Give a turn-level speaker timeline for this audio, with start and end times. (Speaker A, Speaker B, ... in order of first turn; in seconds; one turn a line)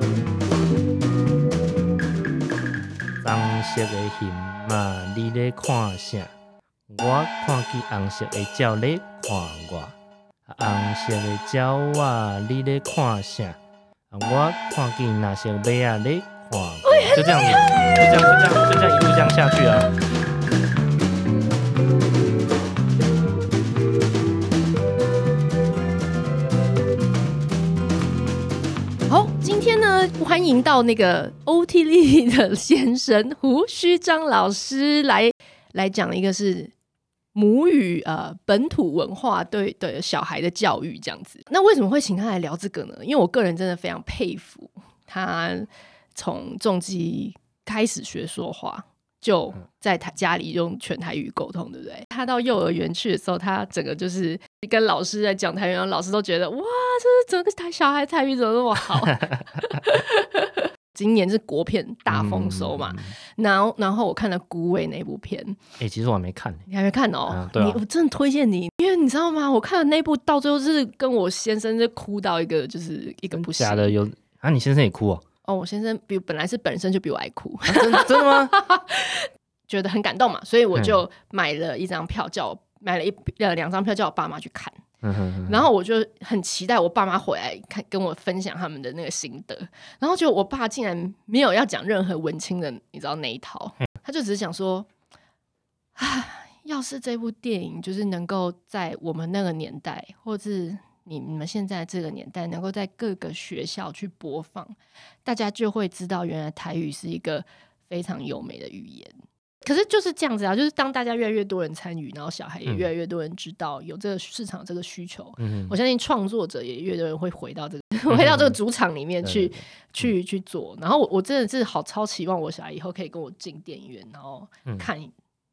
Speaker A: 3.2-6.3
Speaker A: 6.9-13.6
Speaker A: 14.1-19.9
Speaker B: 16.8-18.3
Speaker B: 29.1-36.7
Speaker B: 37.3-65.6
Speaker A: 58.9-59.6
Speaker A: 62.1-63.1
Speaker A: 65.8-66.7
Speaker B: 66.7-73.9
Speaker A: 67.3-67.8
Speaker A: 73.3-75.2
Speaker B: 75.4-84.8
Speaker A: 77.7-78.5
Speaker A: 80.7-81.0
Speaker A: 85.0-85.6
Speaker B: 85.5-94.9
Speaker B: 96.0-109.1
Speaker B: 109.6-125.1
Speaker A: 115.4-115.7
Speaker A: 118.1-118.5
Speaker A: 119.2-120.1